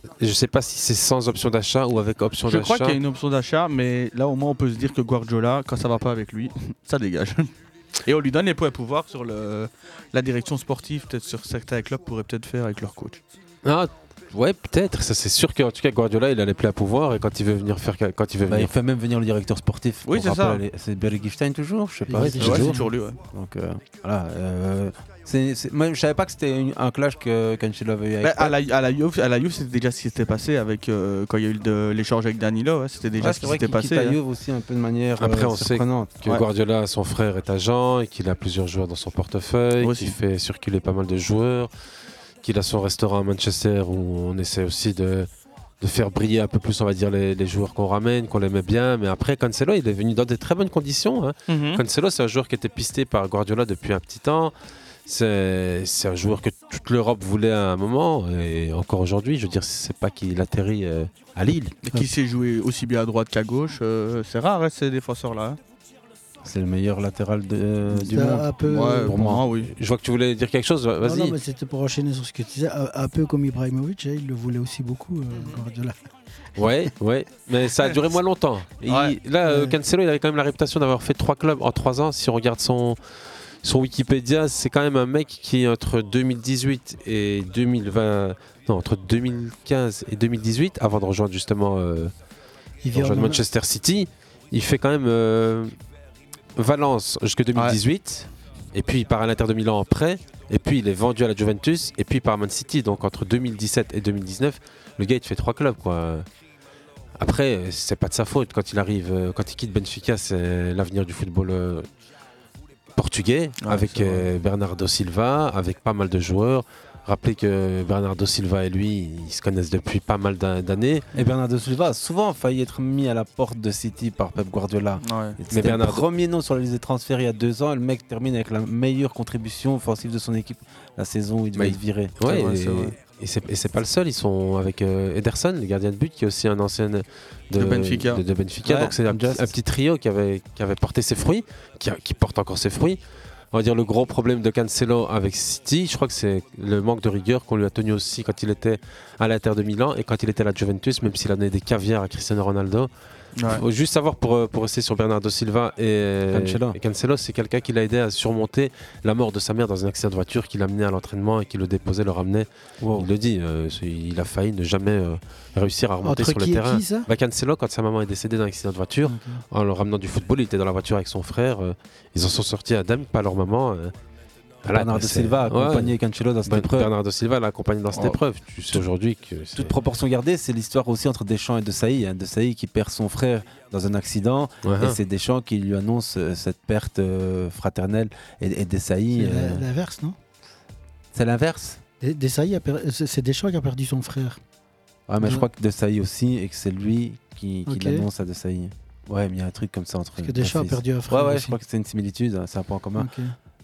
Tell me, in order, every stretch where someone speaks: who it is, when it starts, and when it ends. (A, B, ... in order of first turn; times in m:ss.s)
0:00.2-0:03.0 A
0:02.5-0:07.5 B
0:08.0-0:13.2 B
0:13.6-0:18.7 A
0:18.5-0:28.6 C
0:20.0-0:20.6 B
0:22.1-0:22.9 D
0:22.2-0:22.7 A
0:22.4-0:23.2 B
0:28.2-0:34.2 B
0:33.2-0:36.2 C
0:35.2-0:41.7 A
0:39.8-0:40.2 B
0:42.4-0:45.3 A
0:45.8-0:54.5 A
0:51.5-0:51.8 B
0:55.1-1:01.7 A
1:01.8-1:05.6 B
1:06.4-1:09.4 C
1:08.0-1:09.1 D
1:08.6-1:09.7 B
1:09.6-1:11.4 A
1:11.0-1:16.0 D
1:15.3-1:15.6 B
1:16.6-1:23.0 A
1:18.9-1:19.2 B
1:19.5-1:19.7 D
1:23.6-1:32.1 A
1:32.8-1:33.4 D
1:32.9-1:35.8 A
1:36.6-1:46.3 A
1:47.2-1:51.9 A
1:53.0-2:01.1 A
1:53.6-1:54.3 B
2:01.1-2:12.2 C
2:05.0-2:05.4 B
2:05.5-2:06.0 A
2:11.6-2:23.0 A
2:12.2-2:13.0 B
2:17.6-2:18.2 B
2:18.6-2:19.6 C
2:23.5-2:32.9 A
2:33.4-2:33.6 B
2:33.5-2:53.9 A
2:36.3-2:36.8 C
2:42.8-2:43.1 C
2:46.0-2:47.1 D
2:49.0-2:49.4 D
2:54.6-2:59.8 A
2:54.7-2:56.9 C
2:57.9-2:58.2 B
2:59.6-3:09.6 C
3:04.6-3:05.0 A
3:09.2-3:10.2 D
3:11.1-3:11.8 C
3:12.0-3:14.4 D
3:15.1-3:23.1 C
3:15.2-3:15.5 D
3:17.7-3:18.1 D
3:20.2-3:21.6 D
3:23.0-3:23.4 D